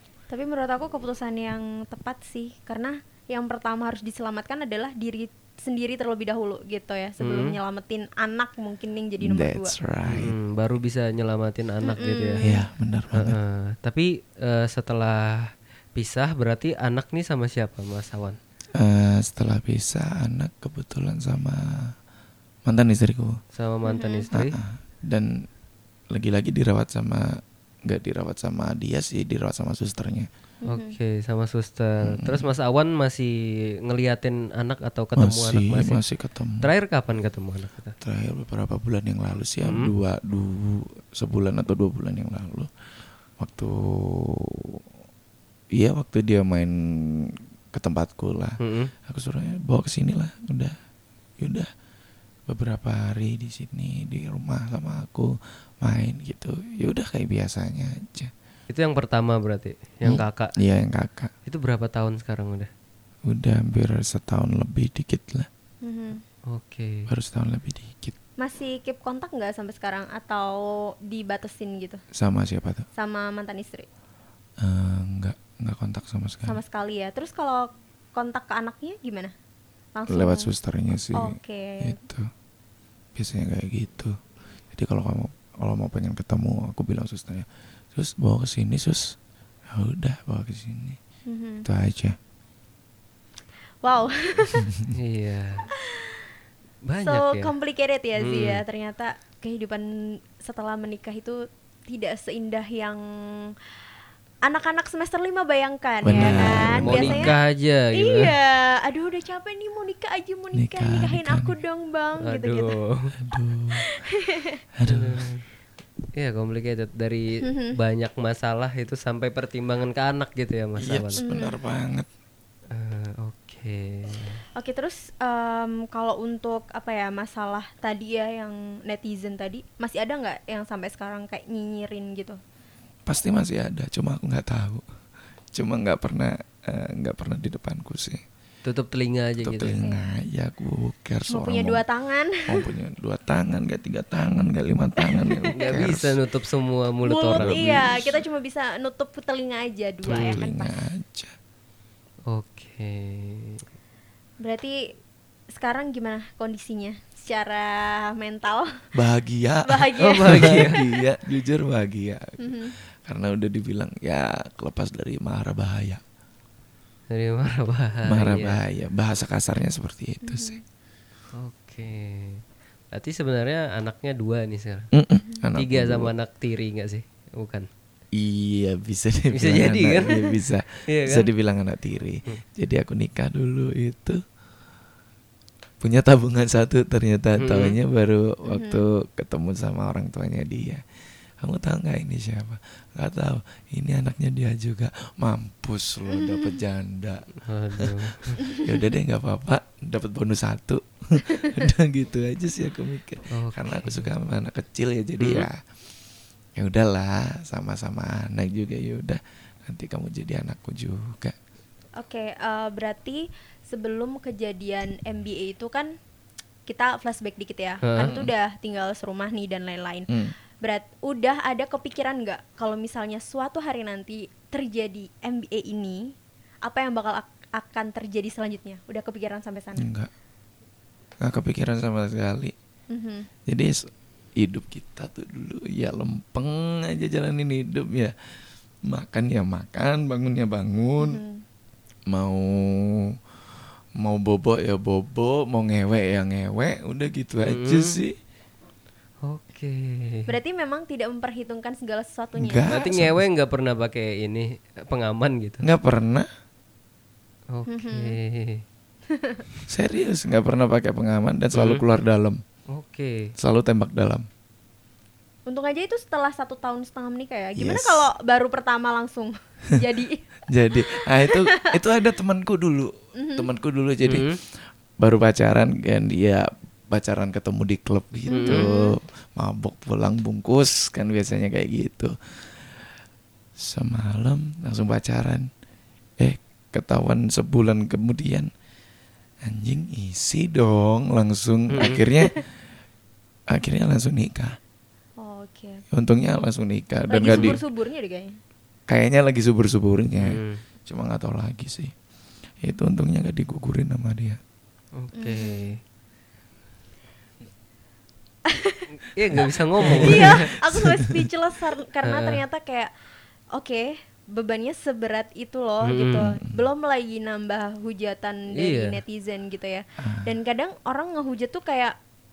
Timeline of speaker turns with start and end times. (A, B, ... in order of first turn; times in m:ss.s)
0:00.3-0:09.8 A
0:07.2-0:07.6 B
0:09.2-0:10.3 C
0:10.1-0:12.5 B
0:11.8-0:12.5 A
0:12.4-0:13.4 C
0:13.1-0:18.4 B
0:18.8-0:22.0 C
0:22.6-0:23.4 C
0:23.5-0:24.6 B
0:23.9-0:24.2 A
0:24.3-0:25.5 C
0:26.1-0:30.3 C
0:30.6-0:31.0 A
0:30.7-0:36.0 B
0:32.0-0:32.5 C
0:35.2-0:36.7 C
0:36.6-0:38.0 B
0:38.0-0:42.7 C
0:39.6-0:39.9 B
0:43.4-0:44.8 C
0:45.8-0:50.8 C
0:48.6-0:48.9 B
0:51.4-0:51.7 C
0:52.5-0:58.3 C
0:58.7-1:00.5 B
1:00.0-1:01.3 C
1:01.5-1:02.7 B
1:03.3-1:05.5 C
1:05.8-1:06.2 A
1:06.5-1:07.1 B
1:07.1-1:08.2 C
1:08.4-1:12.0 A
1:12.1-1:12.9 C
1:13.0-1:13.9 A
1:14.6-1:16.6 C
1:16.5-1:19.3 A
1:20.0-1:20.5 A
1:20.1-1:22.3 C
1:21.1-1:22.0 A
1:23.2-1:24.2 C
1:24.7-1:29.2 C
1:29.7-1:31.0 C
1:31.3-1:31.7 A
1:31.6-1:32.2 C
1:33.8-1:34.7 A
1:34.6-1:34.9 C
1:34.9-1:35.7 B
1:35.7-1:36.3 A
1:36.9-1:37.5 B
1:37.0-1:39.9 A
1:38.2-1:38.6 B
1:40.4-1:43.5 A
1:44.4-1:47.4 A
1:46.0-1:47.3 C
1:46.1-1:48.3 B
1:48.0-1:52.7 A
1:50.6-1:51.5 C
1:52.2-1:53.1 B
1:53.2-1:53.8 C
1:53.8-1:54.6 A
1:54.8-1:55.3 C
1:54.9-1:55.4 B
1:56.2-2:01.2 B
1:57.4-1:57.8 A
2:00.8-2:02.1 C
2:01.2-2:01.6 A
2:02.7-2:04.4 B
2:04.6-2:12.4 A
2:13.1-2:14.8 C
2:15.5-2:18.2 C
2:18.6-2:19.8 B
2:19.4-2:21.8 C
2:19.8-2:20.1 A
2:21.3-2:22.6 A
2:22.4-2:26.2 C
2:25.0-2:25.4 A
2:25.6-2:27.8 B
2:27.0-2:30.8 A
2:27.4-2:28.2 C
2:30.1-2:30.4 B
2:30.1-2:31.4 C
2:32.3-2:33.6 B
2:34.4-2:34.8 A
2:35.6-2:38.7 A
2:38.9-2:46.0 C
2:39.7-2:40.9 A
2:40.0-2:40.8 B
2:42.4-2:42.7 A
2:47.1-2:48.6 B
2:48.1-2:50.6 C
2:50.2-2:50.6 A
2:51.4-2:54.9 B
2:54.9-2:56.1 C
2:55.6-2:57.7 B
2:58.1-3:04.2 C
2:59.3-3:00.3 B
3:00.9-3:01.3 B
3:05.8-3:10.8 C
3:07.4-3:07.8 B
3:08.5-3:08.8 A
3:11.4-3:25.6 C
3:17.4-3:18.4 B
3:23.3-3:24.1 B
3:25.2-3:25.5 B
3:26.6-3:31.4 C
3:32.0-3:35.9 A
3:36.7-3:40.1 A
3:37.9-3:38.2 B
3:38.0-3:38.3 C
3:40.1-3:40.4 C
3:40.6-3:46.1 A
3:46.6-3:49.9 A
3:49.8-3:50.1 C
3:51.2-3:52.6 C
3:52.9-3:53.3 A
3:53.5-3:58.1 C
3:58.9-4:01.2 C
4:01.0-4:01.4 A
4:02.1-4:03.1 C
4:04.0-4:08.2 C
4:07.5-4:08.0 B
4:09.2-4:10.3 B
4:10.3-4:12.7 A
4:12.4-4:13.3 C
4:12.7-4:15.7 B
4:15.6-4:16.3 C
4:17.5-4:18.6 B
4:17.7-4:18.2 A
4:19.1-4:19.4 A
4:19.7-4:22.4 C
4:21.5-4:21.8 B
4:22.7-4:23.3 B
4:23.4-4:24.3 C
4:25.5-4:31.7 A
4:27.6-4:28.0 C
4:30.5-4:42.9 C
4:33.2-4:33.5 A
4:34.1-4:34.4 B
4:38.3-4:38.9 A
4:38.3-4:38.6 B
4:43.6-4:45.5 C
4:46.2-4:48.5 C
4:49.4-4:52.4 C
4:51.7-4:52.0 B
4:51.9-4:52.4 A
4:53.5-4:54.6 C
4:55.2-4:55.8 A
4:55.9-4:57.6 C
4:57.1-4:58.3 A
4:57.3-4:57.6 B
4:58.9-5:01.9 C
5:00.2-5:00.6 B
5:02.6-5:04.4 C
5:05.0-5:05.8 B
5:05.2-5:05.8 A
5:08.5-5:12.9 A
5:09.0-5:10.5 B
5:09.8-5:11.3 C
5:12.0-5:12.4 B
5:13.6-5:22.0 A
5:15.9-5:16.4 B
5:16.2-5:16.6 C
5:18.6-5:19.0 B
5:20.0-5:20.3 C